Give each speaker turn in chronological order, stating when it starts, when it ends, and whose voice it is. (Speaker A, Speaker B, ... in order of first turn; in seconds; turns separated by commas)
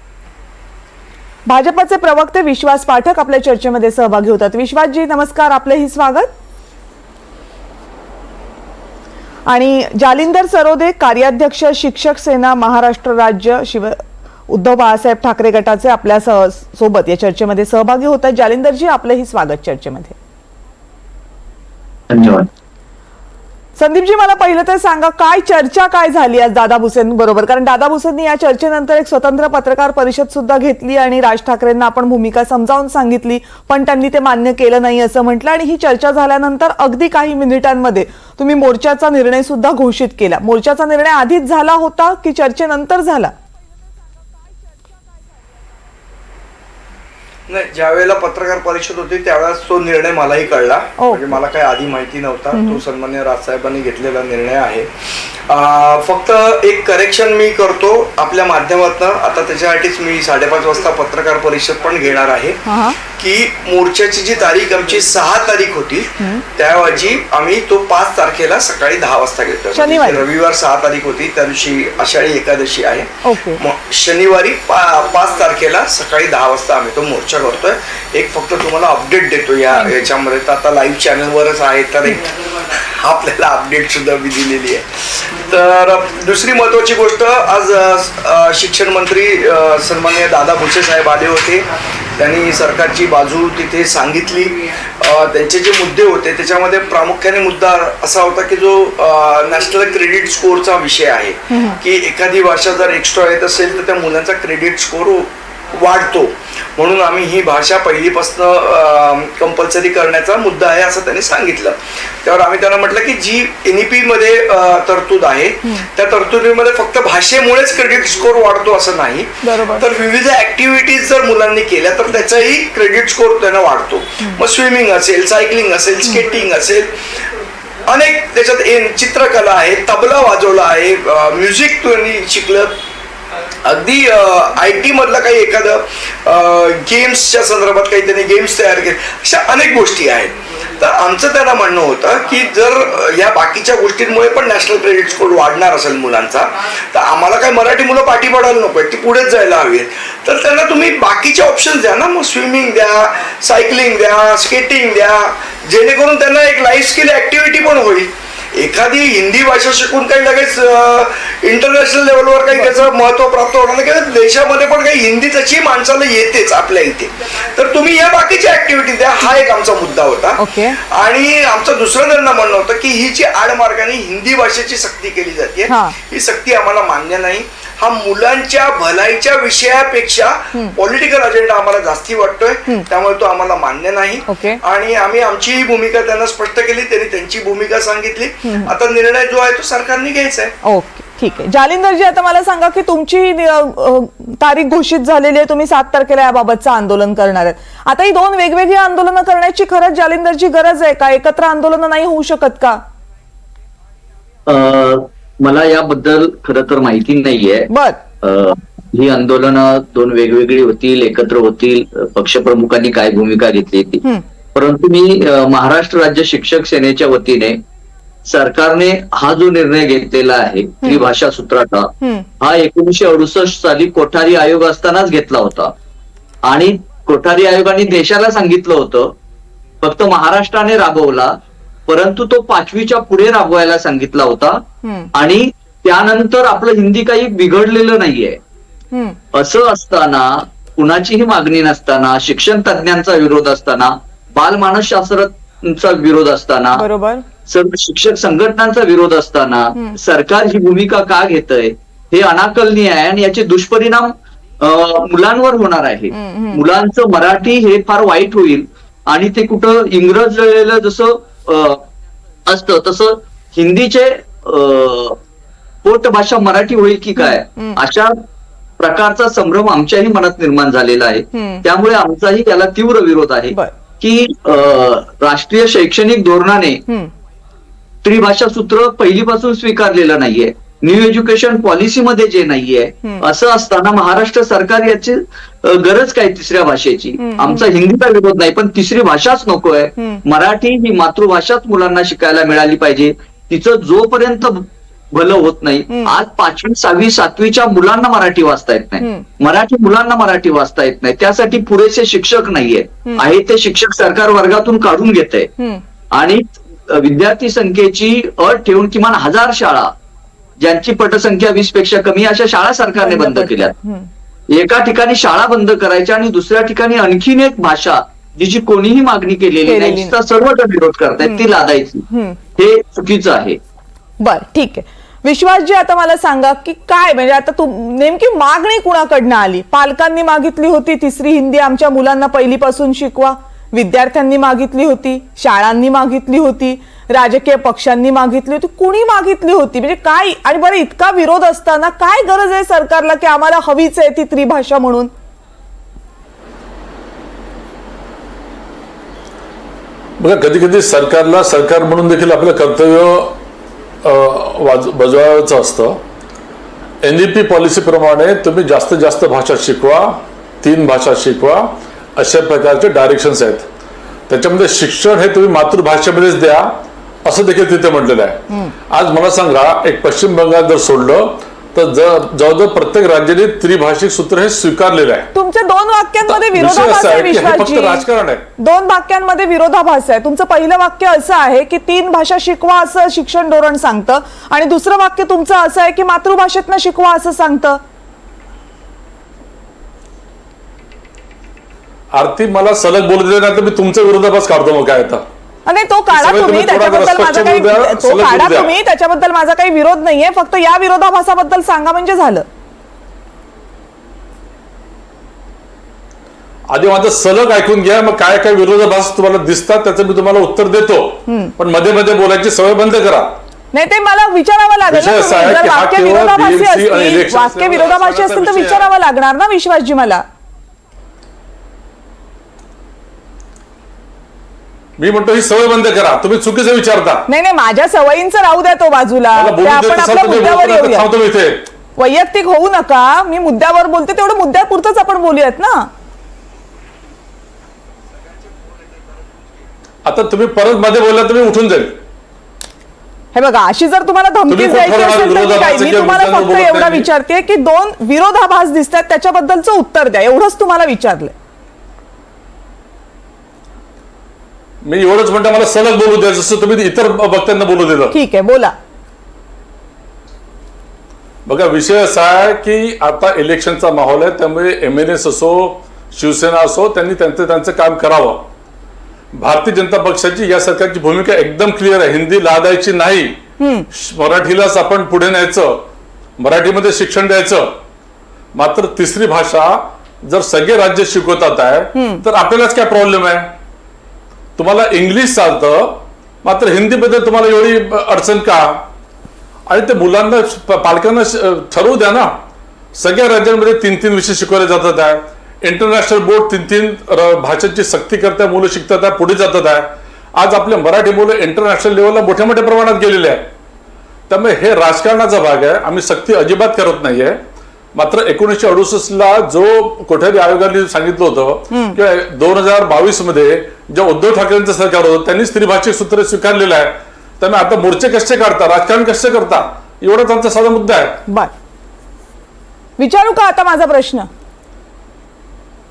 Speaker A: 1.5-6.3, Speaker A: 9.5-20.1, Speaker B: 22.1-22.5, Speaker A: 23.8-43.3, Speaker C: 47.5-127.1, Speaker A: 51.0-51.3, Speaker A: 52.5-52.8, Speaker A: 62.6-63.0, Speaker A: 69.7-70.2, Speaker A: 73.2-73.6, Speaker A: 101.5-101.8, Speaker A: 119.4-119.8, Speaker C: 127.8-132.8, Speaker C: 133.6-190.5, Speaker A: 170.4-170.8, Speaker A: 175.7-175.9, Speaker A: 184.3-184.6, Speaker A: 188.4-188.7, Speaker A: 190.6-202.8, Speaker B: 204.5-207.7, Speaker A: 207.7-208.0, Speaker B: 208.2-214.0, Speaker B: 214.5-217.6, Speaker B: 218.2-225.7, Speaker A: 222.0-222.2, Speaker B: 226.4-229.1, Speaker B: 229.8-238.4, Speaker A: 234.8-235.1, Speaker A: 238.9-239.2, Speaker B: 239.3-246.8, Speaker A: 246.8-247.2, Speaker B: 247.5-261.8, Speaker A: 256.1-256.6, Speaker B: 262.5-265.2, Speaker B: 265.8-268.2, Speaker A: 267.2-267.8, Speaker B: 268.8-276.8, Speaker A: 271.3-271.6, Speaker B: 278.0-305.5, Speaker A: 287.2-287.6, Speaker B: 306.1-309.9, Speaker B: 310.6-313.7, Speaker A: 313.0-314.1, Speaker B: 314.5-323.6, Speaker A: 319.7-320.1, Speaker A: 321.2-321.5, Speaker A: 322.1-322.4, Speaker A: 324.2-345.1, Speaker D: 350.2-353.4, Speaker D: 354.0-356.0, Speaker D: 357.0-363.7, Speaker D: 364.3-375.3, Speaker A: 375.3-378.0, Speaker D: 376.2-378.4, Speaker A: 378.6-387.8, Speaker D: 392.1-395.2, Speaker A: 395.7-402.4, Speaker D: 396.1-398.7, Speaker D: 406.7-413.4, Speaker A: 411.3-411.5, Speaker A: 413.7-420.2, Speaker D: 414.9-418.9, Speaker D: 425.0-427.2, Speaker A: 427.3-431.1, Speaker D: 429.3-431.6, Speaker A: 432.0-435.9, Speaker D: 440.0-442.0, Speaker A: 443.3-451.3, Speaker D: 444.5-447.1, Speaker D: 454.8-458.1, Speaker A: 458.1-458.7, Speaker D: 461.4-468.4, Speaker D: 469.3-473.4, Speaker A: 473.6-473.9, Speaker D: 473.9-477.8, Speaker D: 478.5-483.5, Speaker A: 481.9-482.2, Speaker D: 484.6-488.9, Speaker D: 489.7-492.4, Speaker D: 492.9-503.5, Speaker D: 504.3-507.4, Speaker D: 507.9-521.2, Speaker A: 511.7-511.9, Speaker A: 523.0-524.3